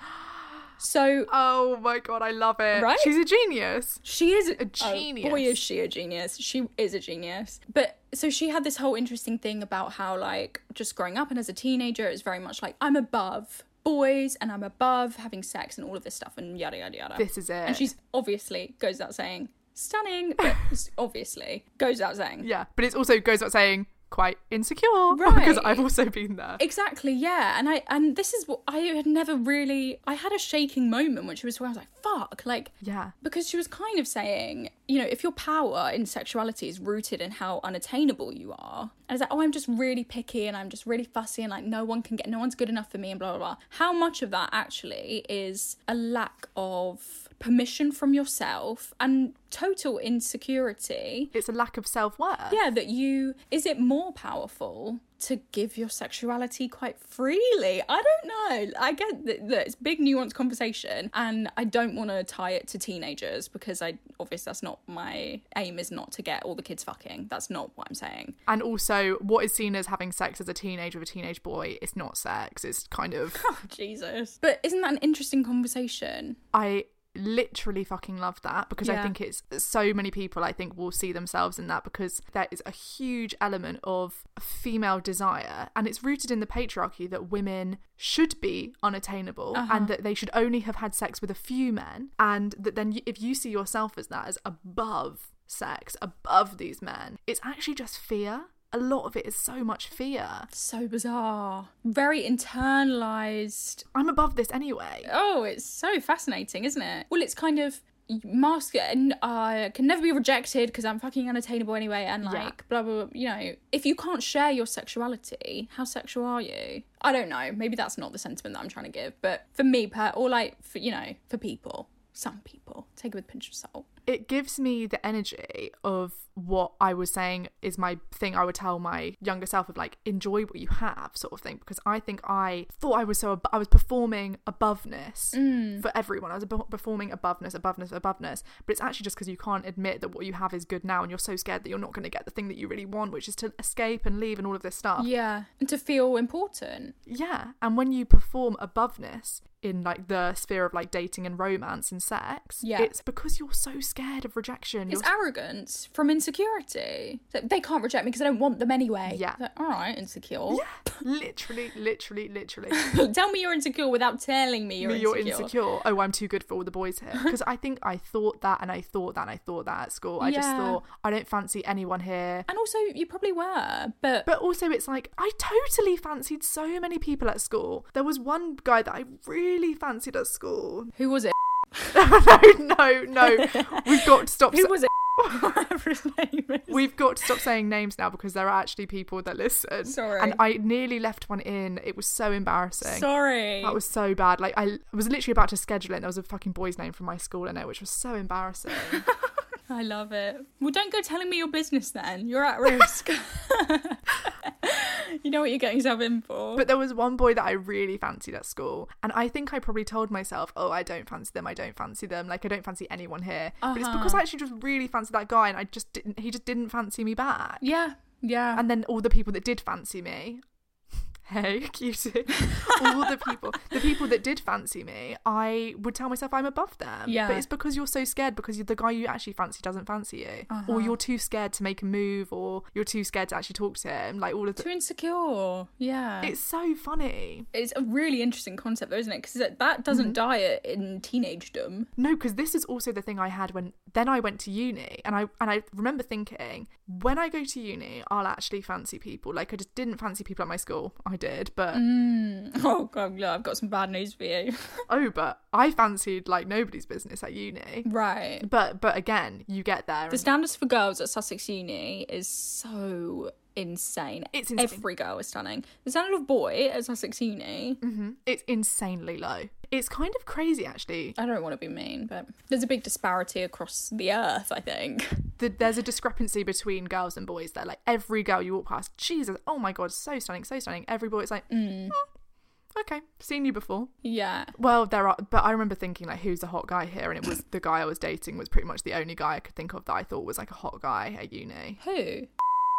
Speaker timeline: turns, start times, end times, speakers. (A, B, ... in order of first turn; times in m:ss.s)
0:00.2-0:00.5 A
0:00.8-0:01.3 B
0:01.3-0:04.0 A
0:02.7-0:03.2 B
0:04.0-0:22.5 B
0:04.6-0:05.6 A
0:17.2-0:17.9 A
0:22.4-0:26.6 A
0:25.1-0:25.9 B
0:26.6-0:51.3 B
0:32.8-0:33.1 A
0:51.3-0:52.6 A
0:52.5-1:08.4 B
1:08.5-1:13.4 A
1:13.4-1:16.4 B
1:16.5-1:40.5 A
1:18.8-1:19.1 B
1:29.5-1:30.0 B
1:40.5-1:43.8 B
1:43.9-1:45.1 A
1:45.0-2:03.9 B
1:52.2-1:52.6 A
2:04.1-2:25.1 A
2:15.3-2:15.9 B
2:25.0-2:27.0 B
2:27.1-2:35.1 A
2:32.6-2:32.9 B
2:34.9-2:40.6 B
2:39.1-2:39.4 A
2:40.5-2:42.9 A
2:42.7-2:45.5 B
2:44.8-2:52.5 A
2:50.2-2:50.8 B
2:52.5-2:54.3 B
2:54.3-3:00.9 A
3:01.0-3:02.0 B
3:01.9-3:05.5 A
3:03.2-3:07.3 B
3:06.7-3:13.1 A
3:09.8-3:10.4 B
3:12.8-3:13.8 B
3:13.6-3:19.0 A
3:18.8-3:26.7 B
3:26.6-3:37.7 A
3:33.6-3:34.2 B
3:37.6-3:38.6 B
3:38.5-3:40.4 A
3:41.2-3:54.7 A
3:42.4-3:43.2 B
3:47.1-3:47.5 B
3:50.5-3:51.0 B
3:54.6-3:56.4 B
3:56.2-3:57.5 A
3:57.5-4:01.9 B
3:59.9-4:00.2 A
4:02.0-4:11.8 A
4:11.7-4:14.9 B
4:14.9-4:17.9 A
4:17.8-4:18.5 B
4:18.4-4:20.3 A
4:20.1-4:27.8 B
4:24.3-4:24.9 A
4:27.8-4:31.2 A
4:31.2-4:35.3 B
4:35.4-4:42.0 A
4:41.5-4:42.0 B
4:42.7-4:43.9 A
4:44.0-4:44.5 B
4:44.6-4:51.8 A
4:51.8-4:52.3 B